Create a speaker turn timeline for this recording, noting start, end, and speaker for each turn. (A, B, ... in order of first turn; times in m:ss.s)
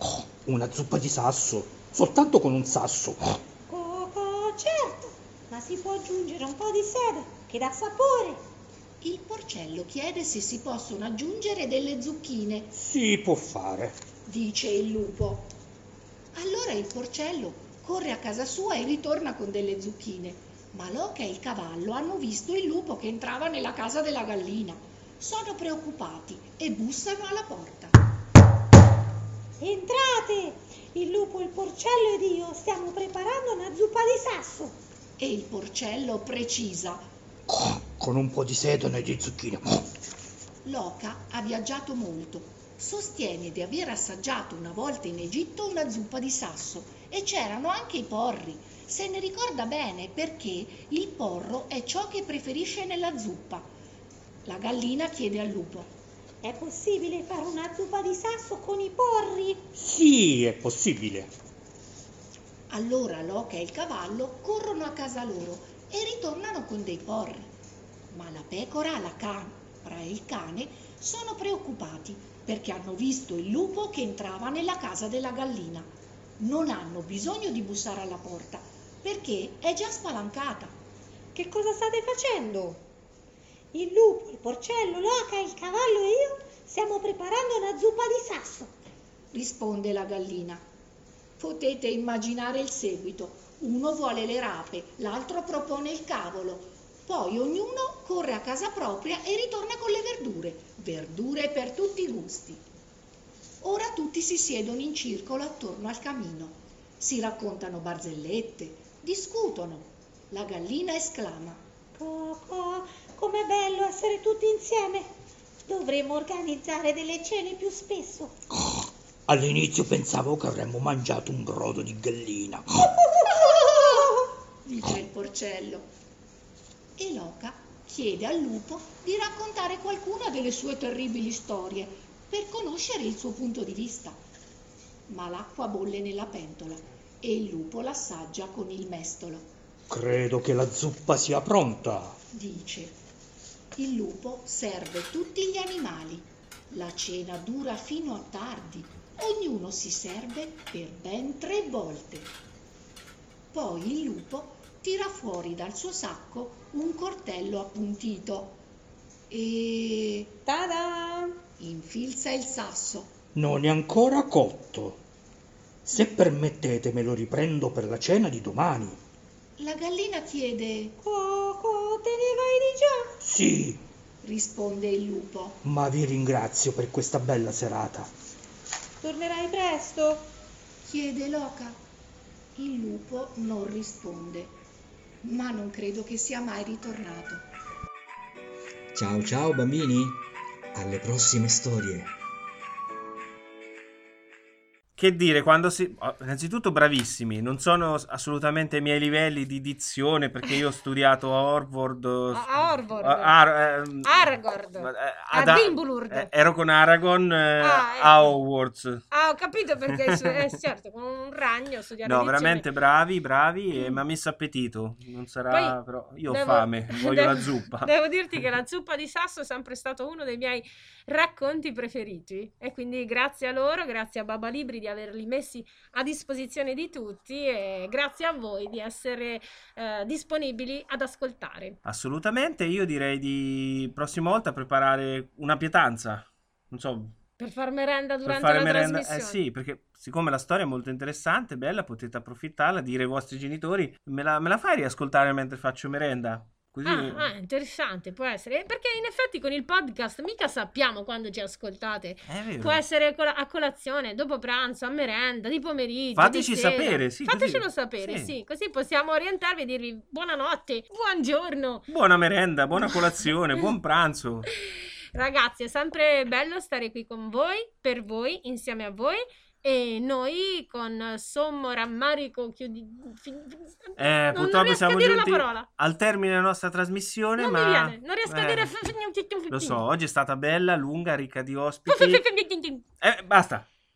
0:00.4-0:03.3 A
0:03.7-0:08.4 B
0:09.0-0:12.7 C
0:12.7-0:14.0 A
0:14.2-0:15.5 C
0:16.3-0:28.0 C
0:29.6-0:34.8 B
0:35.2-0:37.1 C
0:37.5-0:39.8 A
0:40.6-0:53.7 C
0:54.4-0:55.9 C
0:56.4-0:59.6 B
0:59.7-1:01.3 A
1:02.7-1:07.5 C
1:08.1-1:20.8 C
1:21.3-1:22.8 B
1:23.7-1:28.7 B
1:29.3-1:30.6 C
1:31.4-1:42.6 C
1:43.6-1:51.6 C
1:51.9-1:55.1 B
1:55.6-1:58.3 B
1:59.3-2:02.9 A
2:02.8-2:04.2 B
2:03.3-2:05.9 C
2:07.0-2:14.2 C
2:15.1-2:19.5 C
2:19.9-2:22.2 A
2:22.3-2:23.0 C
2:23.7-2:32.3 C
2:33.5-2:38.6 C
2:39.3-2:40.4 C
2:40.4-2:41.3 D
2:41.6-2:43.1 C
2:43.3-2:45.0 A
2:45.8-2:49.0 A
2:49.6-2:51.0 C
2:51.0-2:53.0 B
2:53.2-2:53.8 A
2:54.2-2:55.6 C
2:55.6-2:58.1 A
2:59.0-3:00.3 D
3:00.8-3:01.8 C
3:02.5-3:04.6 C
3:05.2-3:07.5 C
3:08.9-3:10.2 E
3:10.7-3:12.1 E
3:15.0-3:29.0 F
3:22.3-3:23.4 G
3:24.0-3:26.3 G
3:27.6-3:28.4 G
3:29.1-3:32.7 G
3:29.9-3:30.5 F
3:32.0-3:37.9 F
3:35.5-3:35.8 G
3:36.3-3:51.8 G
3:51.8-3:57.1 F
3:57.4-3:59.4 G
3:58.2-4:07.3 F
4:06.8-4:21.9 G
4:12.3-4:12.8 F
4:16.2-4:18.3 F
4:21.9-4:24.5 F
4:24.6-4:35.7 G
4:34.0-4:38.9 F
4:37.4-4:39.8 G
4:39.5-4:42.2 F
4:41.9-4:42.8 G
4:43.0-4:43.7 F